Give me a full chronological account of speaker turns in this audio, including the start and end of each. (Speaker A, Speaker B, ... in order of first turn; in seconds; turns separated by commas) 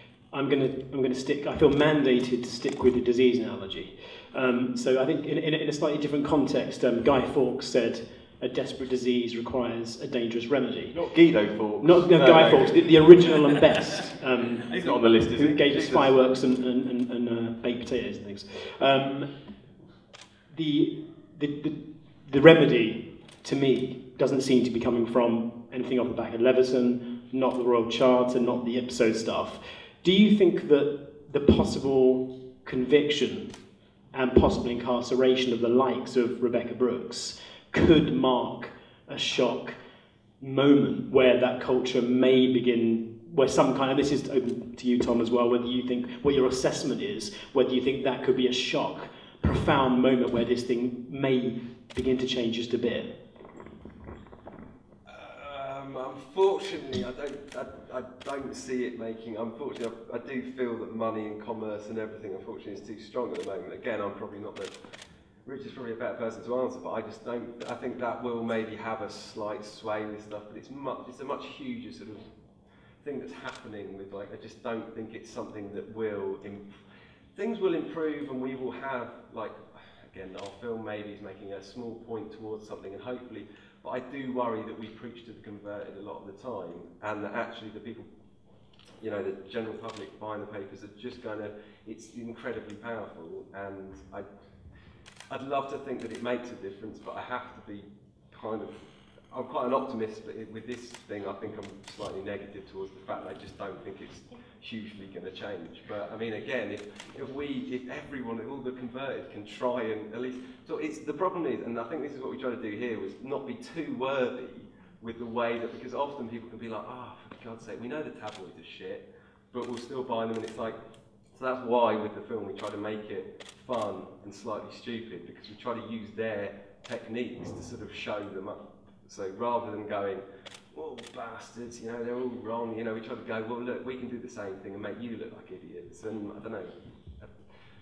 Speaker A: 0.3-10.9, Speaker B: 10.9-13.3, Speaker A: 11.8-14.7, Speaker B: 14.7-16.1, Speaker A: 15.3-19.3, Speaker A: 20.5-33.5, Speaker A: 34.1-39.8, Speaker A: 40.4-53.1, Speaker C: 55.0-64.7, Speaker C: 65.4-72.2, Speaker C: 73.0-76.7, Speaker C: 77.3-88.1, Speaker C: 89.0-94.3, Speaker C: 95.3-98.7, Speaker C: 99.3-120.8, Speaker C: 121.3-137.3